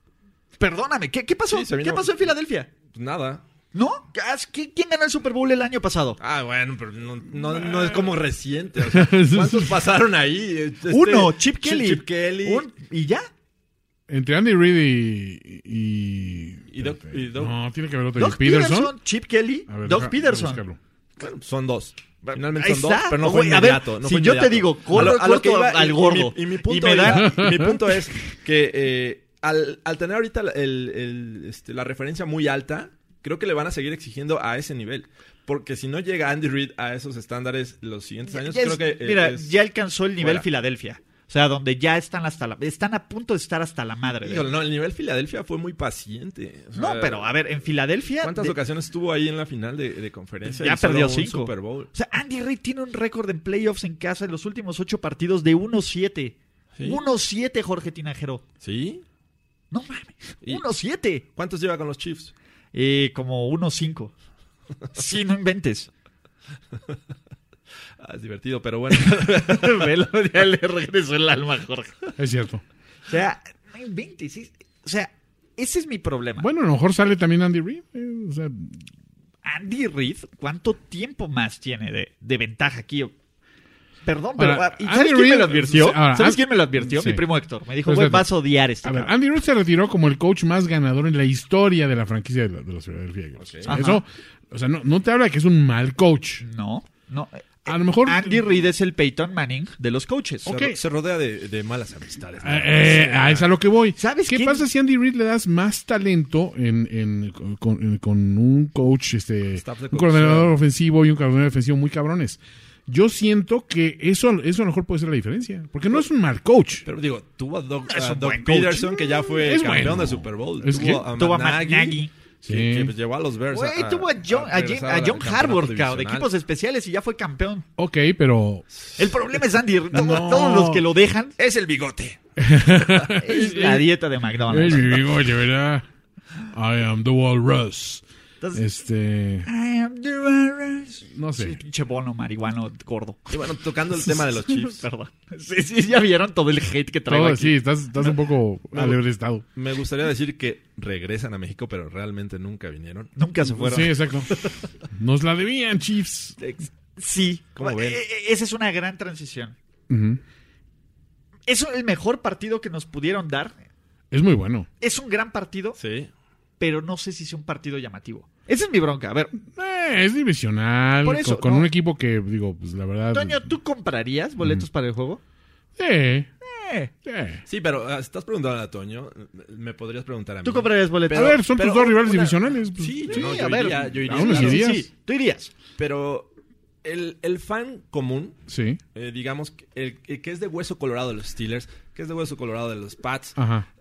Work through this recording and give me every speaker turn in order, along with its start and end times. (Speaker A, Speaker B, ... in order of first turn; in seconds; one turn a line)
Speaker A: 0.6-2.7
Speaker B: 1.5-2.3
Speaker B: 2.9-3.4
Speaker A: 3.7-6.2
Speaker B: 6.2-12.7
Speaker C: 8.8-9.8
Speaker A: 10.9-13.3
Speaker C: 14.1-18.9
Speaker B: 16.7-17.6
Speaker A: 18.1-20.6
Speaker C: 19.7-20.8
Speaker B: 21.2-39.5
Speaker A: 22.2-27.4
Speaker C: 27.1-27.8
Speaker A: 38.3-44.5
Speaker B: 40.2-40.5
Speaker B: 44.2-47.3
Speaker A: 46.8-48.6
Speaker B: 48.2-51.9
Speaker A: 50.5-58.4
Speaker B: 56.8-57.0
Speaker B: 58.6-59.0
Speaker A: 59.7-61.2
Speaker B: 61.3-62.3
Speaker A: 62.7-64.1
Speaker A: 64.9-65.9
Speaker B: 68.0-69.9
Speaker A: 68.9-72.1
Speaker C: 72.2-72.6
Speaker A: 73.1-76.5
Speaker C: 76.4-78.8
Speaker A: 79.4-83.1
Speaker A: 84.0-89.1
Speaker C: 84.4-87.2
Speaker C: 87.8-88.3
Speaker C: 88.8-96.4
Speaker B: 93.4-93.8
Speaker A: 93.7-94.0
Speaker A: 96.4-100.5
Speaker C: 97.7-98.4
Speaker C: 100.4-100.8
Speaker B: 100.5-103.5
Speaker C: 102.4-116.8
Speaker A: 104.0-104.7
Speaker B: 109.6-110.5
Speaker B: 116.8-126.3
Speaker A: 117.9-119.4
Speaker C: 119.4-121.1
Speaker A: 120.8-122.1
Speaker C: 122.4-122.9
Speaker A: 123.5-127.7
Speaker C: 127.8-128.6
Speaker A: 129.0-131.6
Speaker C: 129.9-130.9
Speaker B: 131.6-132.2
Speaker C: 132.4-133.7
Speaker A: 133.1-135.1
Speaker B: 133.4-133.8
Speaker C: 134.5-135.8
Speaker C: 136.5-138.0
Speaker A: 138.4-138.7
Speaker C: 138.5-139.5
Speaker A: 139.4-143.4
Speaker C: 141.1-141.6
Speaker B: 143.3-144.8
Speaker A: 144.1-147.6
Speaker C: 147.1-149.4
Speaker B: 148.7-149.0
Speaker B: 149.5-153.1
Speaker A: 153.2-154.0
Speaker C: 153.5-154.3
Speaker C: 154.9-156.3
Speaker A: 156.4-159.5
Speaker B: 157.6-158.0
Speaker C: 159.9-160.2
Speaker A: 161.5-163.6
Speaker C: 164.1-164.7
Speaker A: 164.8-165.8
Speaker B: 165.8-166.1
Speaker A: 166.6-169.3
Speaker C: 169.4-173.5
Speaker A: 171.0-171.7
Speaker A: 173.1-175.2
Speaker C: 175.8-176.3
Speaker A: 176.4-176.9
Speaker C: 177.0-177.4
Speaker B: 177.5-184.8
Speaker A: 180.4-182.3
Speaker C: 181.1-184.8
Speaker A: 183.0-185.5
Speaker B: 185.8-186.3
Speaker B: 186.8-188.4
Speaker C: 188.5-188.8
Speaker B: 188.9-193.4
Speaker C: 193.4-193.7